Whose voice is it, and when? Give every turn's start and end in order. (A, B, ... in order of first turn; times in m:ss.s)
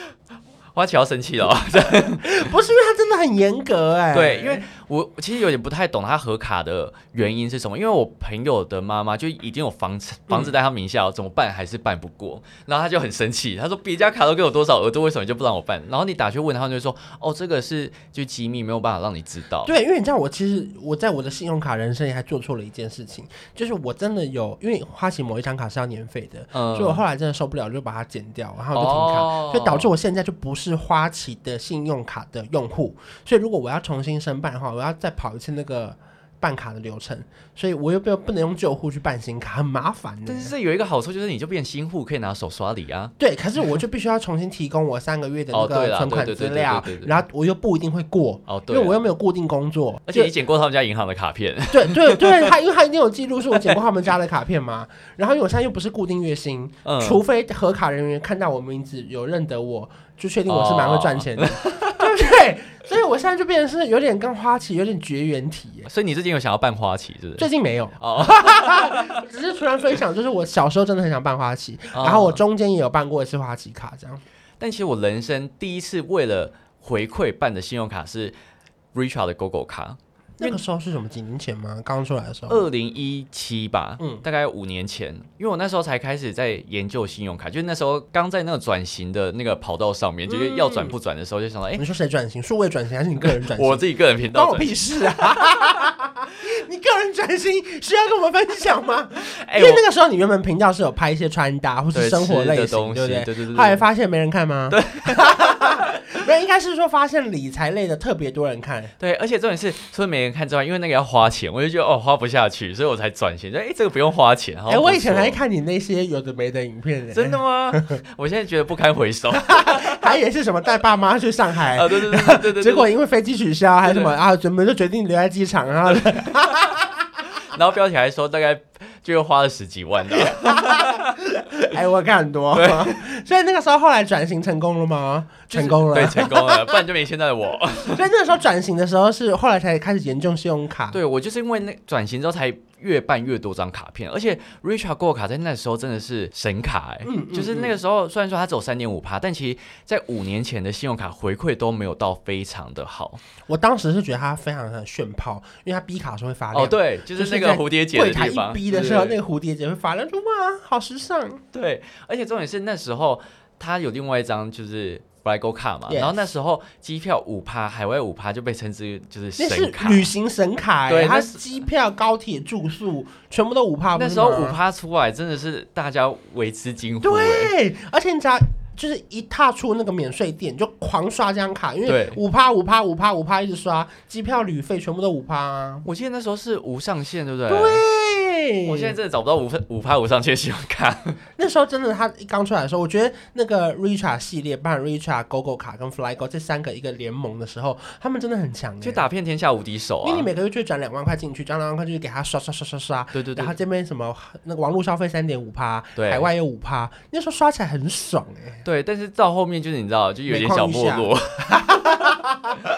0:00.7-0:02.3 A
0:01.8-0:04.6 B
0:04.1-0:19.7 A
0:19.6-0:40.5 B
0:26.5-0:27.0 A
0:28.8-0:29.9 A
0:40.3-0:43.1 A
0:43.2-0:50.3 B
0:45.5-0:47.1 A
0:48.5-0:49.0 A
0:50.1-0:52.5 A
0:51.7-1:05.9 B
0:56.8-0:57.2 A
1:00.5-1:02.0 A
1:05.9-1:07.5 A
1:07.4-1:14.2 B
1:08.0-1:09.1 A
1:11.9-1:12.4 A
1:14.6-1:18.4 A
1:18.9-1:20.6 A
1:20.4-1:22.7 B
1:22.5-1:31.8 A
1:30.3-1:31.0 B
1:31.8-1:49.0 B
1:33.2-1:34.7 A
1:35.3-1:35.6 A
1:39.2-1:39.8 A
1:41.9-1:43.8 A
1:44.7-1:45.9 A
1:49.0-1:55.4 A
1:54.7-1:58.0 B
1:57.1-2:00.0 A
1:59.5-2:06.9 B
2:01.7-2:02.9 A
2:03.8-2:04.1 A
2:07.5-2:11.1 A
2:10.1-2:16.8 B
2:12.5-2:13.0 A
2:15.5-2:18.0 A
2:17.8-2:21.0 B
2:20.9-2:33.2 A
2:27.0-2:27.8 B
2:33.5-2:41.4 B
2:36.5-2:39.2 A
2:41.5-2:50.1 A
2:45.9-2:46.2 B
2:49.4-2:54.6 B
2:50.9-2:51.4 A
2:54.0-2:57.5 A
2:57.0-3:05.9 B
3:01.9-3:02.2 A
3:05.8-3:07.8 A
3:07.5-3:09.0 B
3:08.6-3:11.2 A
3:11.4-3:19.1 B
3:18.8-3:20.3 A
3:20.0-3:28.6 B
3:23.1-3:23.6 A
3:26.0-3:26.3 A
3:28.6-3:32.0 A
3:30.3-3:32.6 B